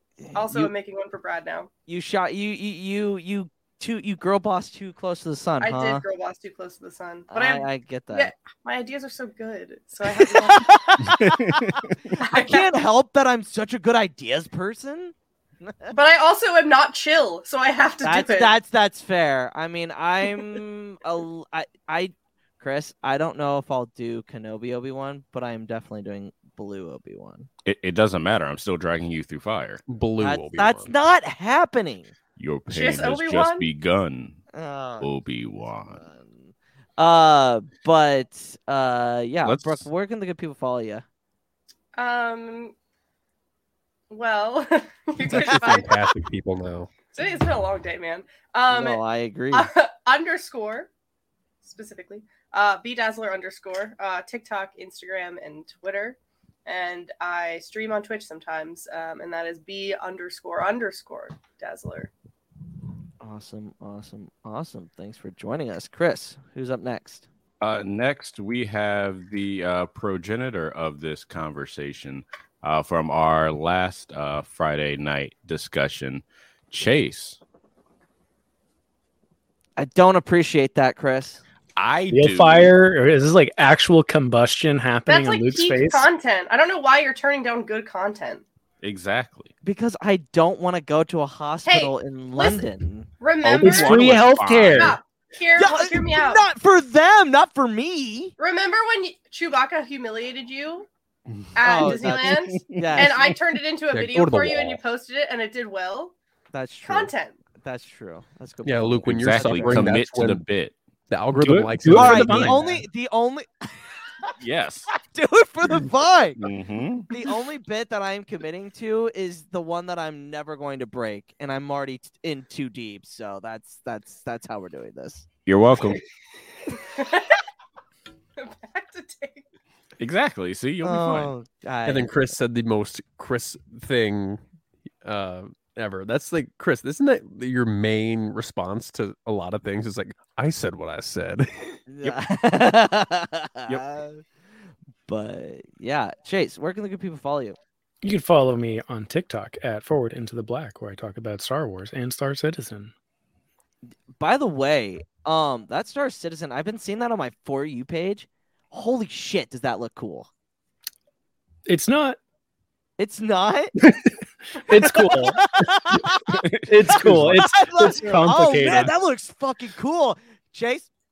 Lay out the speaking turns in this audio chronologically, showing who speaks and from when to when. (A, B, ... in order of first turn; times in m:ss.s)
0:00.2-0:00.7 A
0:00.3-0:01.7 B
0:01.9-0:06.0 A
0:05.6-0:11.2 B
0:07.3-0:08.3 A
0:10.1-0:15.9 A
0:11.1-0:11.9 C
0:12.2-0:12.7 B
0:15.9-0:18.5 B
0:18.0-0:27.5 A
0:27.6-0:29.8 C
0:29.9-0:30.9 D
0:30.2-0:32.1 A
0:32.4-0:34.4 C
0:32.7-0:33.7 B
0:34.5-0:35.1 A
0:35.0-0:36.0 C
0:35.9-0:41.0 A
0:39.4-0:39.9 C
0:42.0-0:42.7 B
0:44.1-0:46.1 B
0:45.2-0:46.9 D
0:47.1-0:49.0 B
0:48.7-0:49.7 A
0:49.5-0:50.9 B
0:51.6-1:02.1 B
1:03.2-1:07.3 A
1:07.6-1:17.4 C
1:19.8-1:21.4 A
1:21.8-1:22.7 C
1:22.1-1:26.0 E
1:25.1-1:28.4 B
1:28.8-1:29.5 C
1:29.6-1:33.1 A
1:31.6-1:32.6 B
1:33.2-1:34.0 B
1:33.4-1:35.0 C
1:33.6-1:35.0 E
1:34.7-1:36.4 B
1:35.6-1:38.3 A
1:38.4-1:40.9 B
1:41.6-1:46.1 B
1:41.6-1:43.3 A
1:43.9-1:44.8 D
1:46.5-1:50.0 A
1:46.8-1:47.4 B
1:48.6-1:50.4 D
1:49.0-1:50.7 C
1:51.1-1:52.7 D
1:51.4-1:52.7 E
1:51.9-1:54.3 A
1:54.4-1:54.9 C
1:54.9-1:56.5 A
1:56.4-1:57.1 C
1:57.1-2:05.3 A
2:05.4-2:06.0 C
2:06.7-2:07.4 B
2:08.4-2:09.4 B
2:10.0-2:11.3 C
2:10.8-2:12.1 A
2:11.8-2:14.4 D
2:15.0-2:21.8 D
2:21.9-2:24.2 A
2:25.1-2:27.6 A
2:28.0-2:32.9 E
2:33.8-2:40.3 A
2:41.6-2:42.2 E
2:43.0-2:43.7 A
2:43.8-2:44.1 E
2:44.6-2:45.4 E
2:44.7-2:46.2 A
2:46.7-2:48.9 E
2:47.1-2:50.9 A